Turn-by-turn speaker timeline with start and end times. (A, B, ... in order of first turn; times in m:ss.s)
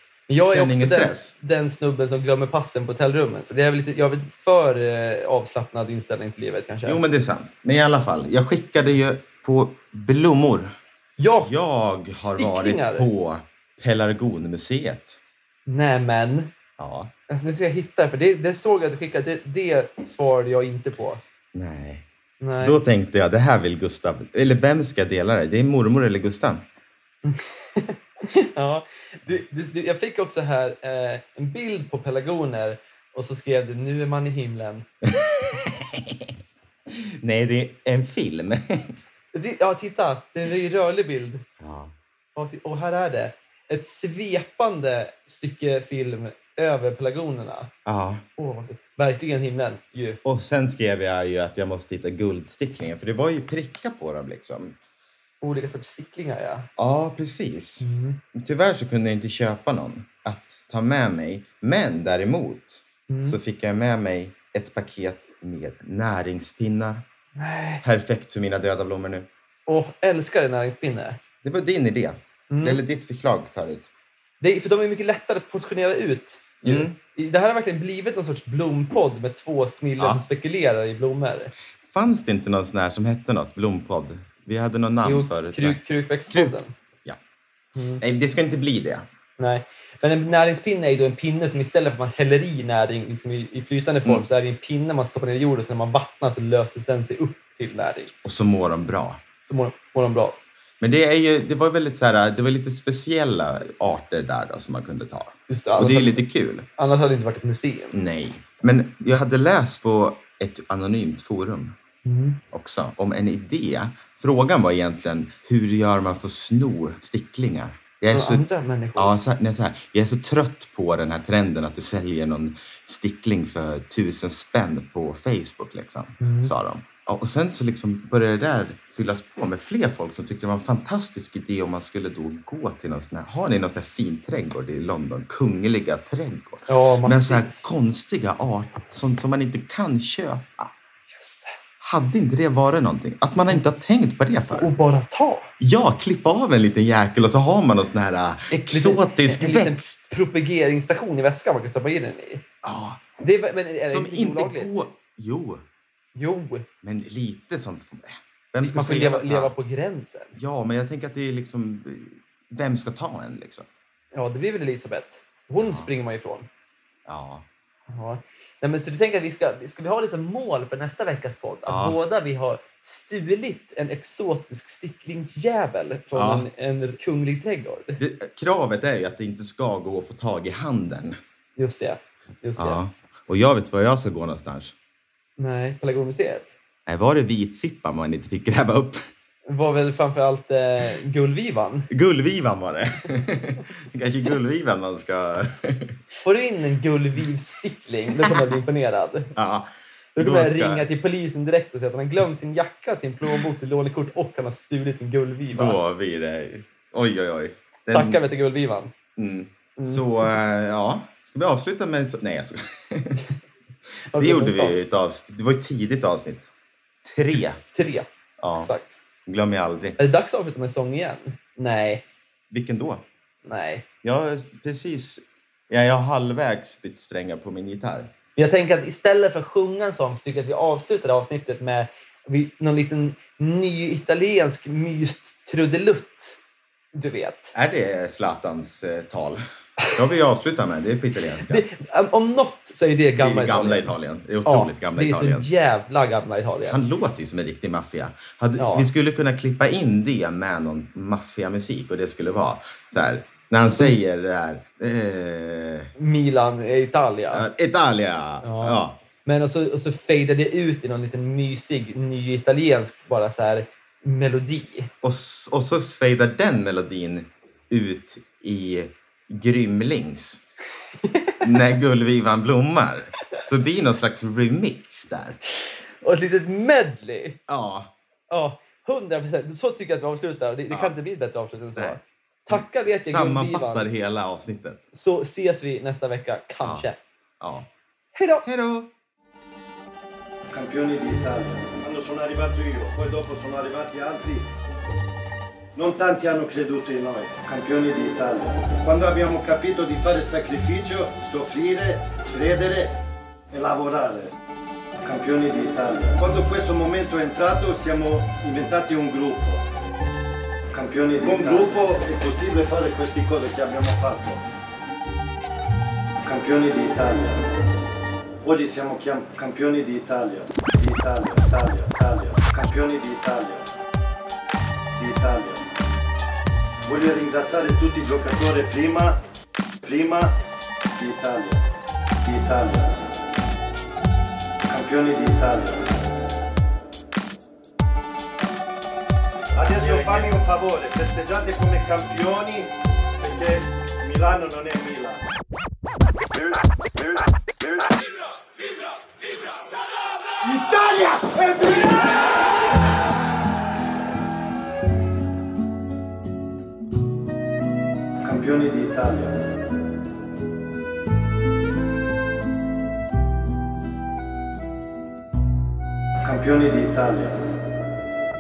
0:00.3-0:07.0 A
0:00.4-0:01.3 B
0:06.9-0:10.8 B
0:11.2-0:11.5 A
0:11.4-0:15.2 B
0:12.2-0:13.1 A
0:15.7-0:16.5 A
0:16.8-0:17.1 B
0:17.3-0:21.2 A
0:21.5-0:22.1 B
0:22.4-0:22.8 A
0:22.6-0:26.6 B
0:27.2-0:34.9 A
0:35.0-0:36.3 B
0:36.9-0:39.0 B
0:39.3-0:41.4 A
0:41.6-0:41.9 B
0:42.4-0:47.7 A
0:47.9-0:48.2 B
0:48.4-0:50.2 A
0:50.2-0:54.8 B
0:55.4-0:56.7 A
0:56.8-1:07.0 B
0:57.8-0:58.2 A
1:03.1-1:03.4 A
1:07.4-1:07.8 A
1:07.8-1:09.3 B
1:09.7-1:11.2 A
1:11.4-1:13.9 B
1:12.5-1:12.8 A
1:14.4-1:21.5 A
1:16.6-1:17.0 B
1:21.9-1:25.8 B
1:25.0-1:26.7 A
1:26.3-1:27.2 B
1:27.8-1:28.0 A
1:28.0-1:29.1 B
1:29.4-1:38.1 A
1:38.2-1:39.2 B
1:39.4-1:40.4 A
1:40.8-1:46.7 B
1:45.5-1:46.2 A
1:46.8-1:47.9 A
1:47.9-1:51.8 B
1:52.0-1:52.4 A
1:52.5-1:58.4 B
1:58.1-1:59.1 A
1:59.0-2:20.7 B
2:06.2-2:06.5 A
2:16.7-2:17.6 A
2:21.1-2:21.6 A
2:21.8-2:24.7 B
2:24.5-2:25.5 A
2:25.6-2:30.1 B
2:28.5-2:32.4 A
2:32.6-2:33.0 B
2:33.2-2:34.8 A
2:33.8-2:35.6 B
2:36.2-2:36.7 A
2:36.8-2:39.5 B
2:38.6-2:40.4 A
2:40.4-2:43.7 B
2:44.1-2:46.5 A
2:45.6-2:45.9 B
2:47.1-2:47.4 B
2:47.9-2:58.0 A
2:51.7-2:52.0 B
2:56.2-2:56.5 B
2:58.0-3:01.2 B
3:01.6-3:02.8 A
3:02.6-3:04.7 B
3:05.4-3:06.5 A
3:06.9-3:09.1 B
3:09.5-3:11.9 A
3:11.9-3:16.0 B
3:16.2-3:19.3 A
3:19.4-3:20.9 B
3:20.2-3:25.8 A
3:25.6-3:28.2 B
3:27.9-3:28.9 A
3:29.2-3:33.2 B
3:29.8-3:30.3 A
3:34.1-3:34.8 A
3:34.1-3:36.5 B
3:37.0-3:37.6 B
3:37.3-3:38.1 A
3:38.4-3:38.7 B
3:38.6-3:39.0 A
3:39.3-3:40.0 B
3:40.0-3:42.0 A
3:42.5-3:43.0 B
3:43.4-3:43.8 A
3:44.0-3:48.1 B
3:48.4-3:56.4 A
3:56.9-3:57.5 A
3:57.5-4:01.6 B
4:01.5-4:03.9 A
4:03.2-4:05.5 B
4:04.5-4:06.8 A
4:06.6-4:15.9 B
4:08.6-4:08.9 A
4:16.0-4:17.5 A
4:17.3-4:19.0 B
4:18.4-4:24.9 A
4:25.0-4:30.4 B
4:31.0-4:31.4 A
4:31.4-4:35.4 B
4:35.5-4:37.4 A
4:37.5-4:37.9 B
4:38.3-4:43.8 A
4:42.5-4:44.8 B
4:44.9-4:47.0 A
4:46.6-4:46.9 B
4:47.4-4:47.7 B
4:48.2-4:48.5 A
4:48.4-4:48.9 B
4:50.5-4:54.4 C
4:55.8-5:03.0 C
5:03.5-5:04.3 C
5:05.0-5:09.6 C
5:10.7-5:14.4 C
5:11.2-5:11.8 B
5:16.2-5:17.4 C
5:18.4-5:23.7 C
5:25.0-5:25.7 C
5:26.8-5:29.2 C
5:29.8-5:30.3 C
5:30.9-5:31.6 C
5:32.2-5:32.9 C
5:34.7-5:35.8 C
5:39.6-5:45.2 C
5:39.8-5:40.3 B
5:50.4-5:52.3 C
5:58.2-5:59.4 C
6:06.2-6:07.4 C